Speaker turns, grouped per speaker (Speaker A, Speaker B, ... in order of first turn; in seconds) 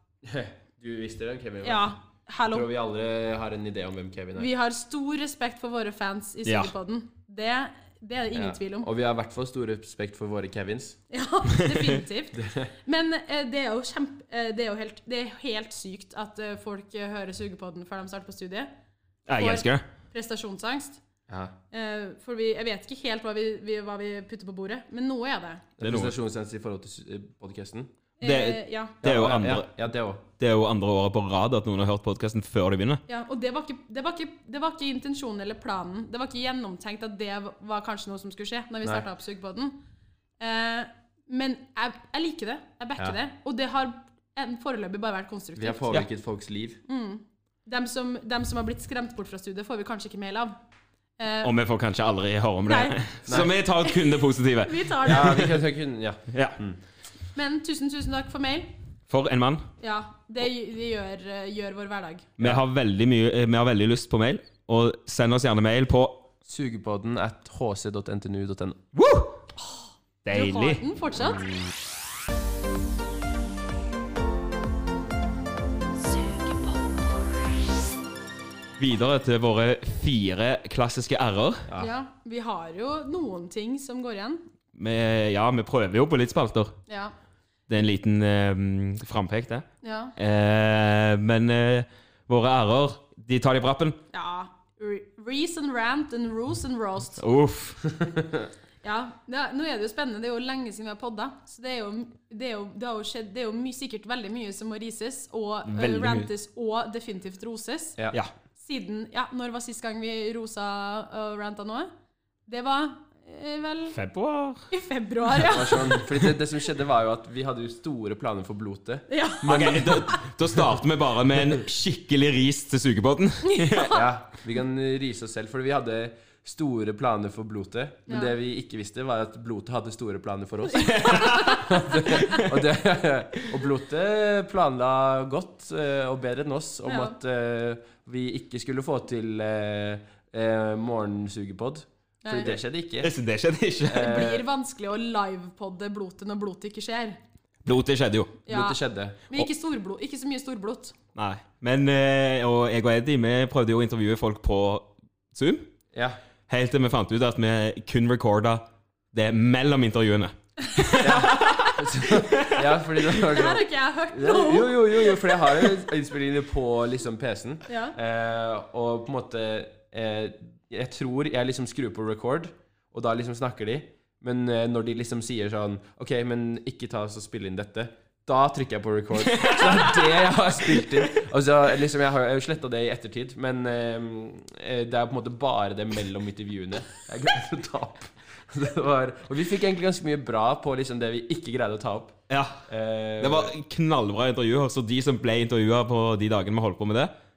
Speaker A: 0.2-1.9, 2.5-4.5, 8.3-11.0, 12.3-12.7, 21.3-21.6, 25.8-27.9, 29.0-30.2, 45.5-46.8, 53.3-53.5, 55.0-56.8, 66.5-68.8, 81.7-81.9, 98.0-98.4, 115.4-120.1, 123.9-143.1, 143.9-144.4, 148.5-149.2, 155.9-156.2, 161.0-193.5
Speaker B: 1.6-2.7, 4.3-8.9, 11.1-18.7, 19.4-21.0, 21.7-25.7, 28.2-29.0, 33.1-39.8, 40.4-46.0, 46.9-50.6, 51.2-51.5, 52.7-55.5, 57.4-58.8, 59.8-62.3, 69.6-71.5, 81.8-84.4, 86.9-87.1, 89.8-90.2, 94.1-97.2, 98.8-108.0, 108.6-111.9, 112.5-114.0, 114.7-116.1, 119.1-120.2, 123.5-124.1, 128.1-128.3, 130.8-132.4, 136.8-137.2, 142.2-142.6, 143.9-147.2, 148.5-151.0, 160.7-161.1, 163.1-165.7, 167.7-168.0
Speaker C: 6.5-6.7, 19.3-19.8, 25.8-26.1, 28.2-29.7, 30.4-33.0, 51.4-55.6, 56.3-56.6, 59.1-59.7, 62.4-66.3, 69.0-69.4, 70.2-70.8, 78.8-81.7, 84.8-86.8, 87.7-94.0, 97.2-97.9, 105.7-106.3, 113.9-114.7, 119.4-124.0, 130.8-131.7, 143.0-144.2, 147.7-148.4, 151.2-155.7, 156.5-162.7, 179.3-180.2, 192.3-192.7, 193.2-197.1